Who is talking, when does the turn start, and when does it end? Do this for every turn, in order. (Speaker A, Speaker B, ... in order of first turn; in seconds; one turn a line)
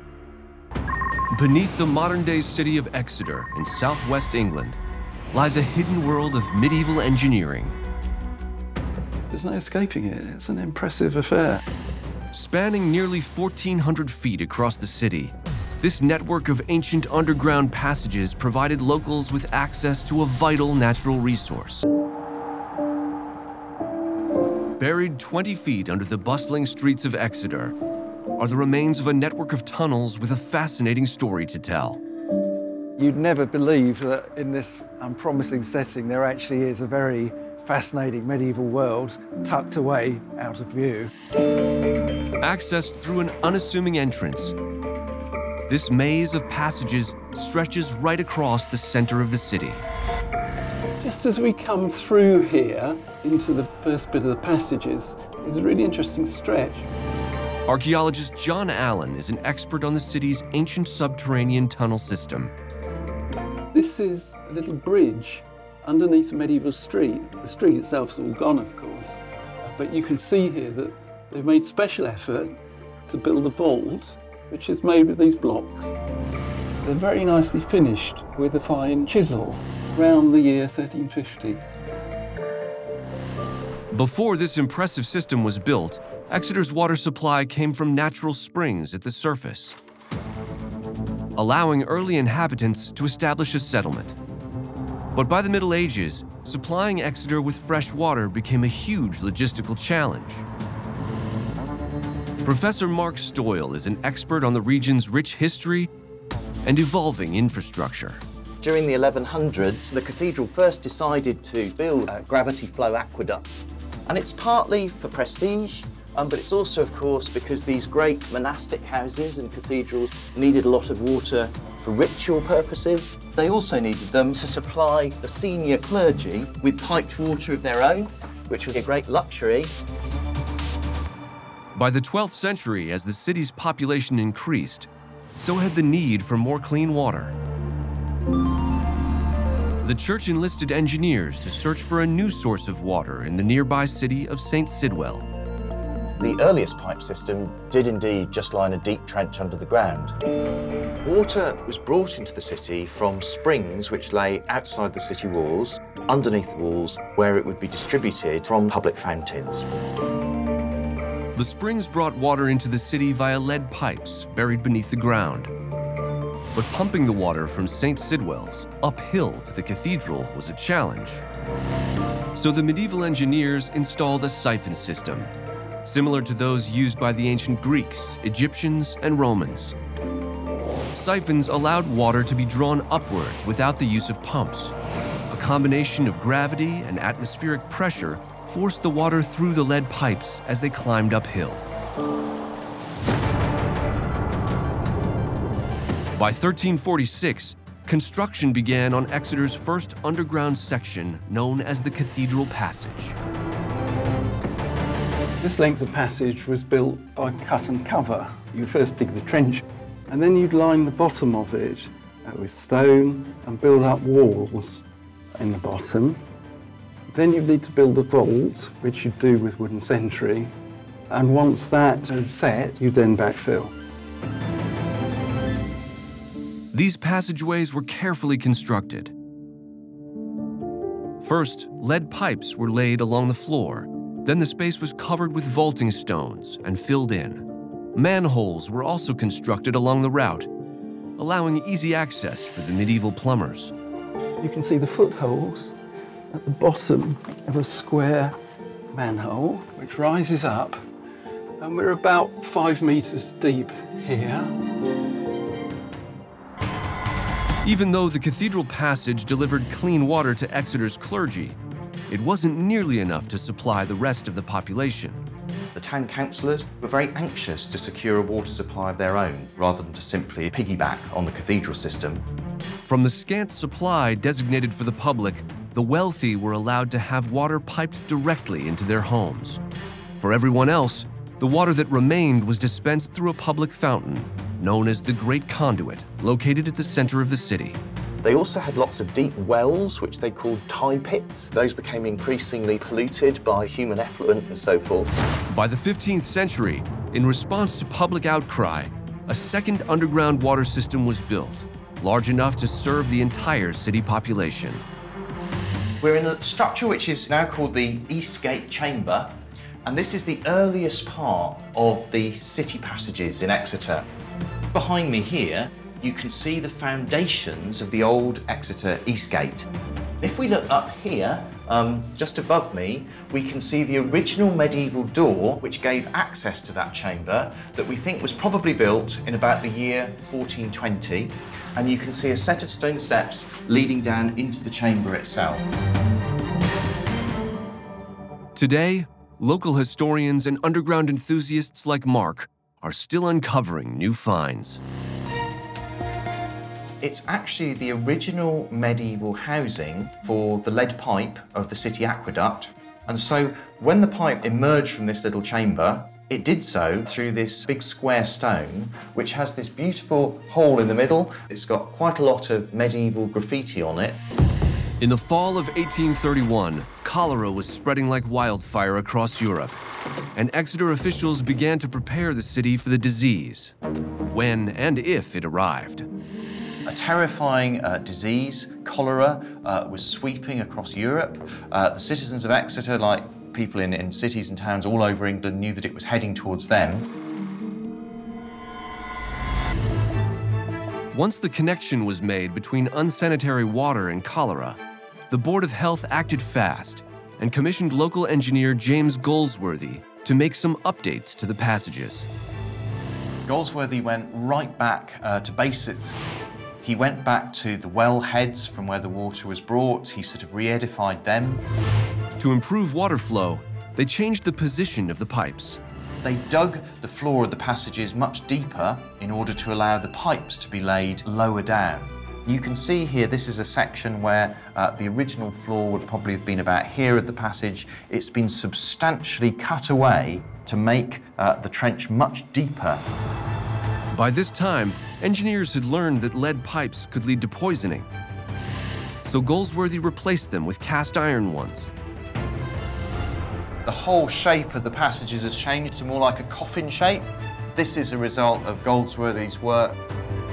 Speaker A: 1.3-4.8
Speaker A: 5.3-7.8
Speaker B: 9.3-11.6
Speaker A: 12.3-21.9
Speaker A: 24.8-27.7
Speaker A: 28.4-32.0
Speaker B: 33.0-41.1
Speaker A: 42.4-44.5
Speaker A: 45.7-49.8
Speaker B: 51.0-56.9
Speaker A: 57.6-62.5
Speaker B: 63.7-72.5
Speaker B: 73.1-76.0
Speaker B: 76.8-81.6
Speaker A: 83.9-89.8
Speaker A: 91.3-94.2
Speaker A: 95.1-100.4
Speaker A: 102.4-105.9
Speaker A: 106.6-108.2
Speaker C: 108.6-113.5
Speaker C: 114.0-129.7
Speaker A: 131.7-137.3
Speaker A: 139.8-145.3
Speaker C: 146.2-150.2
Speaker C: 151.0-159.7
Speaker A: 161.3-165.5
Speaker A: 166.5-171.2
Speaker A: 172.3-175.3
Speaker A: 175.8-179.7
Speaker A: 180.9-184.7
Speaker A: 185.3-191.6
Speaker A: 196.1-203.2
Speaker B: 205.4-216.2
Speaker B: 217.1-220.5
Speaker B: 221.1-223.7
Speaker A: 226.7-229.1
Speaker A: 231.2-240.5
Speaker A: 241.2-243.7
Speaker B: 244.4-245.7
Speaker B: 246.3-248.3
Speaker B: 248.9-250.8
Speaker B: 251.6-254.5
Speaker A: 257.6-261.6
Speaker A: 262.1-265.2
Speaker C: 265.7-272.2
Speaker A: 272.9-279.6
Speaker A: 280.2-287.8
Speaker C: 288.2-295.1
Speaker A: 295.5-304.8
Speaker C: 306.0-309.3
Speaker C: 309.8-314.0
Speaker C: 314.7-319.7
Speaker C: 320.2-335.7
Speaker A: 338.5-344.8
Speaker C: 347.0-364.2
Speaker A: 365.0-369.8
Speaker A: 370.3-373.7
Speaker A: 374.2-376.1
Speaker C: 376.9-387.1
Speaker A: 391.1-394.8
Speaker A: 395.3-402.3
Speaker C: 403.5-406.2
Speaker C: 406.8-411.6
Speaker A: 412.4-415.8
Speaker C: 416.2-433.1
Speaker A: 434.1-438.1
Speaker A: 439.2-441.9
Speaker C: 443.9-449.9